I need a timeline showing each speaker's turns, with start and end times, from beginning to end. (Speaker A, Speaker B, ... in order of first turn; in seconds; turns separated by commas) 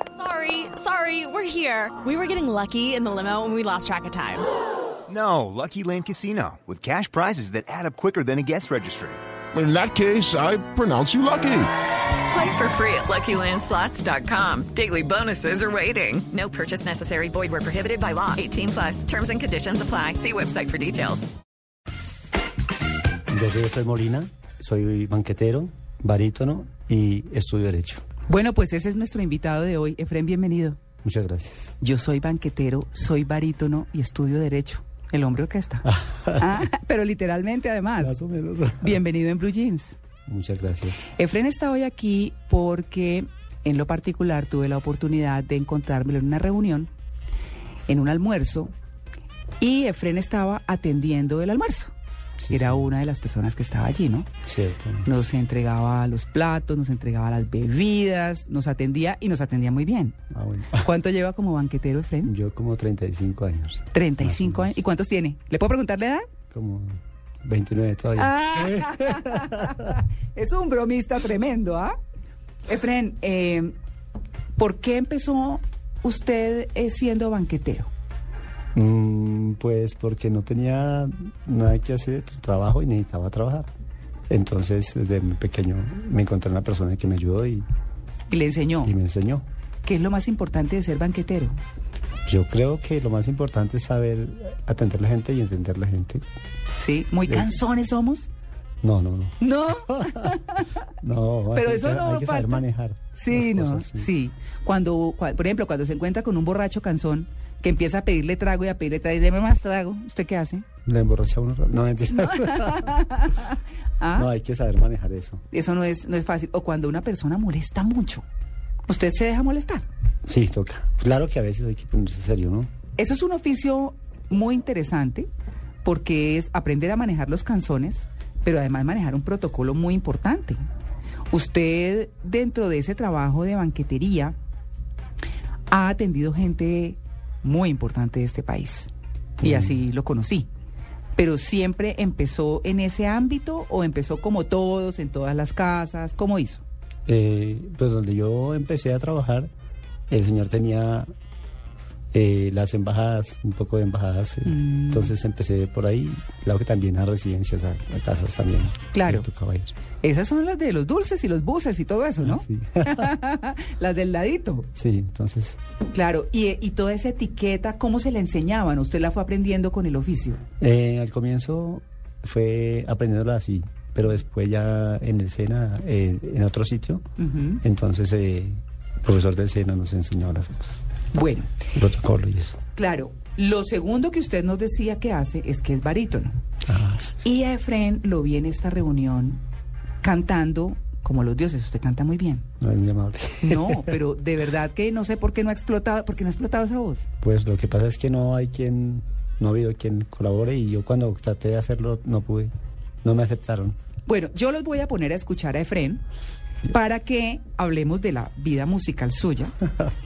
Speaker A: 0.2-4.4, Speaker B: 5.1-9.2, Speaker C: 9.5-11.7, Speaker D: 12.3-21.3, Speaker E: 23.3-28.0, Speaker F: 28.3-30.8, Speaker E: 31.0-31.8, Speaker F: 31.8-38.2, Speaker E: 35.9-36.6, Speaker E: 38.0-39.0, Speaker F: 38.8-40.0, Speaker E: 40.3-41.1, Speaker F: 41.1-46.9, Speaker F: 47.9-48.7, Speaker F: 49.6-51.9, Speaker E: 52.4-52.9, Speaker F: 52.5-54.3, Speaker E: 54.4-55.1, Speaker F: 55.0-60.1, Speaker E: 60.3-60.9, Speaker F: 60.7-62.3, Speaker E: 62.2-64.8, Speaker F: 63.9-66.2, Speaker E: 66.5-69.9, Speaker F: 68.2-72.0, Speaker F: 72.7-73.7, Speaker F: 74.6-77.9, Speaker E: 78.7-83.7, Speaker E: 84.3-87.7, Speaker F: 88.3-88.9, Speaker E: 88.8-89.4, Speaker F: 89.8-91.6, Speaker E: 92.2-96.2, Speaker F: 96.8-98.3, Speaker E: 97.3-97.6, Speaker E: 98.8-104.1, Speaker F: 99.4-100.7, Speaker F: 101.5-110.7, Speaker E: 110.8-113.0, Speaker F: 112.1-114.3, Speaker E: 114.1-115.4, Speaker F: 115.5-118.2, Speaker F: 118.9-119.8, Speaker E: 120.3-122.7, Speaker F: 123.0-125.3, Speaker F: 125.8-130.6, Speaker F: 131.3-134.3, Speaker F: 135.7-138.9, Speaker E: 139.4-139.8, Speaker F: 139.4-140.5, Speaker F: 141.2-146.6, Speaker E: 147.1-149.5, Speaker E: 150.1-151.1, Speaker E: 152.1-159.7, Speaker F: 154.4-155.1, Speaker F: 158.9-159.2, Speaker F: 160.0-164.7, Speaker E: 162.2-163.1, Speaker E: 164.7-165.6, Speaker F: 165.8-170.4, Speaker E: 170.6-177.0, Speaker F: 177.2-177.6, Speaker E: 177.6-180.8, Speaker F: 181.1-181.5, Speaker E: 181.7-182.6, Speaker F: 182.7-186.3, Speaker E: 186.7-187.2, Speaker F: 187.2-189.4, Speaker F: 190.0-192.4, Speaker E: 192.6-194.0, Speaker F: 193.4-197.1, Speaker E: 197.2-202.5, Speaker E: 203.0-203.8, Speaker F: 204.1-206.0, Speaker F: 206.7-209.5